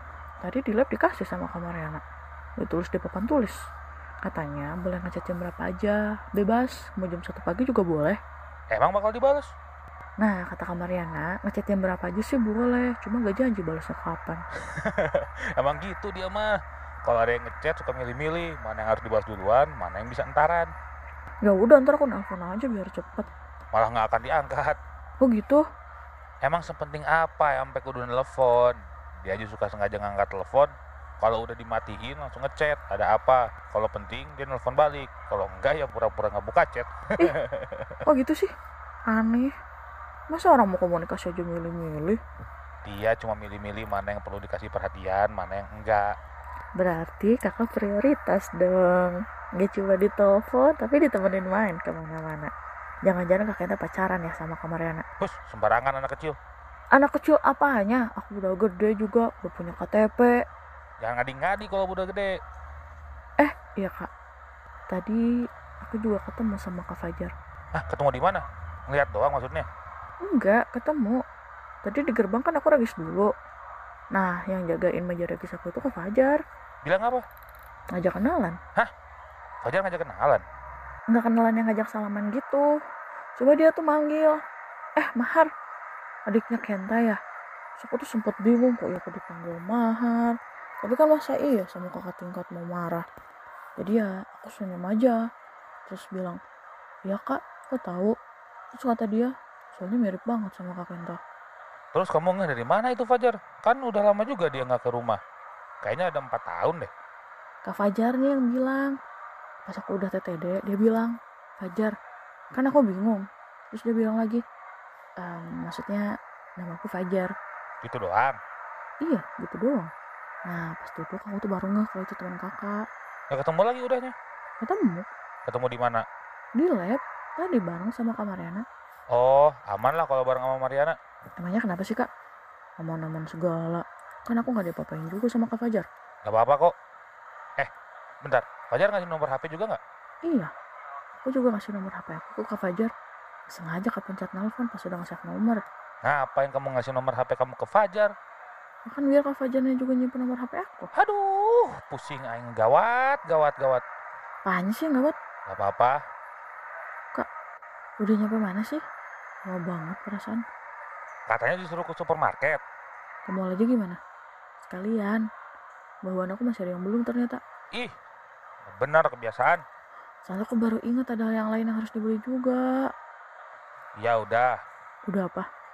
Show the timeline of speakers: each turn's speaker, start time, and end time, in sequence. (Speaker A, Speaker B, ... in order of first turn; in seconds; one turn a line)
Speaker A: 0.4-2.0
Speaker A: 2.6-3.5
Speaker A: 4.2-8.2
Speaker B: 8.7-9.5
Speaker A: 10.2-14.4
Speaker B: 14.8-20.7
Speaker A: 21.4-23.3
Speaker B: 23.7-24.8
Speaker A: 25.2-25.6
Speaker B: 26.4-38.0
Speaker A: 38.0-38.5
Speaker A: 39.1-39.5
Speaker A: 40.3-42.2
Speaker B: 42.9-46.1
Speaker A: 46.8-52.5
Speaker A: 53.0-55.0
Speaker B: 55.2-56.4
Speaker A: 56.9-60.3
Speaker B: 61.0-62.3
Speaker A: 63.4-64.1
Speaker A: 64.9-65.2
Speaker A: 65.8-67.3
Speaker B: 67.7-69.7
Speaker A: 70.2-71.2
Speaker A: 71.8-73.3
Speaker A: 74.1-76.4
Speaker B: 76.8-77.2
Speaker A: 77.9-78.6
Speaker B: 79.6-80.4
Speaker A: 81.1-82.7
Speaker A: 83.4-84.4
Speaker A: 85.0-85.5
Speaker A: 86.3-87.2
Speaker A: 87.8-93.0
Speaker A: 93.8-95.2
Speaker A: 95.9-96.4
Speaker A: 97.1-98.1
Speaker A: 98.8-101.2
Speaker B: 101.9-105.2
Speaker B: 105.8-106.9
Speaker A: 107.6-108.9
Speaker A: 109.7-111.9
Speaker A: 112.5-114.4
Speaker A: 115.2-116.0
Speaker A: 116.6-117.3
Speaker B: 117.8-118.4
Speaker A: 119.0-119.9
Speaker A: 120.5-122.8
Speaker B: 123.3-124.1
Speaker A: 124.6-125.1
Speaker B: 125.4-126.0
Speaker A: 126.6-128.6
Speaker B: 129.1-130.9
Speaker A: 131.4-132.1
Speaker A: 132.8-135.9
Speaker B: 136.2-136.7
Speaker B: 138.2-139.8
Speaker A: 140.2-140.5
Speaker A: 141.2-142.9
Speaker A: 143.5-145.6
Speaker B: 146.0-148.1
Speaker A: 148.9-150.9
Speaker B: 150.9-153.8
Speaker A: 154.4-155.2
Speaker B: 155.4-156.0
Speaker A: 158.0-158.8
Speaker A: 159.5-160.4
Speaker B: 161.3-162.6
Speaker A: 163.3-164.0
Speaker A: 164.7-165.2
Speaker A: 166.1-167.4
Speaker B: 168.7-169.6
Speaker A: 170.2-172.6
Speaker B: 174.0-174.5
Speaker A: 175.1-175.4